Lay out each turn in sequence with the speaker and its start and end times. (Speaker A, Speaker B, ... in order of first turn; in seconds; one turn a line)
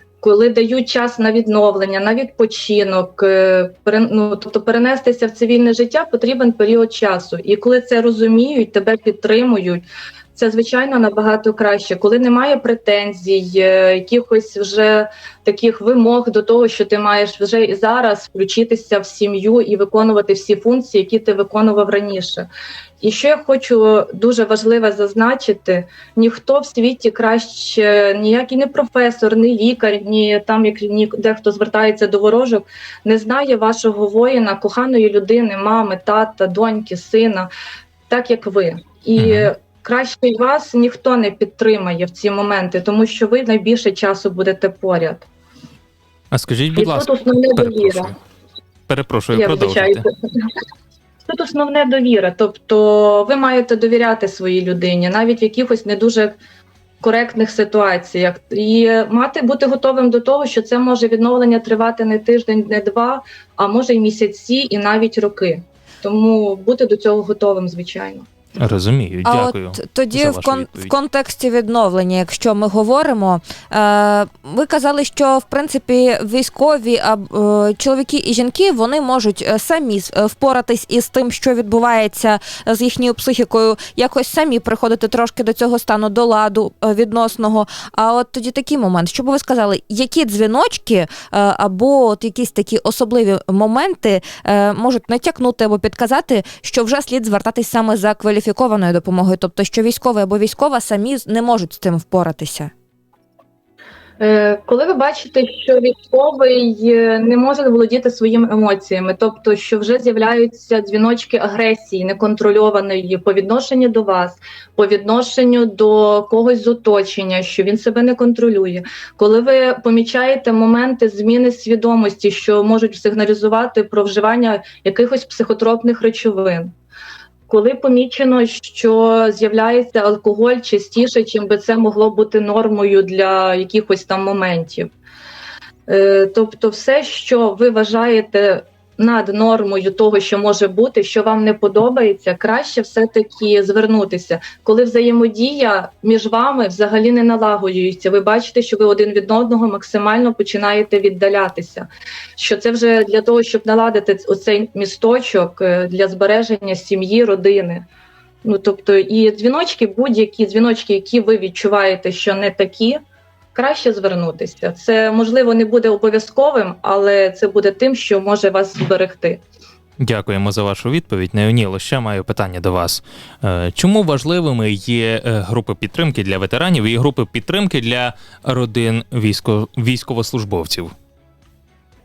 Speaker A: 0.2-22.5
Speaker A: 23.0-37.5
Speaker A: 38.1-45.3
Speaker B: 39.2-39.5
Speaker B: 46.3-48.2
Speaker A: 46.7-48.1
Speaker B: 48.9-50.1
Speaker A: 49.3-50.1
Speaker A: 51.3-56.4
Speaker A: 57.0-68.3
Speaker B: 68.6-71.0
Speaker C: 69.2-102.7
Speaker A: 104.2-126.7
Speaker A: 127.5-134.9
Speaker A: 135.9-157.9
Speaker A: 158.4-163.0
Speaker A: 163.6-169.4
Speaker B: 170.0-180.9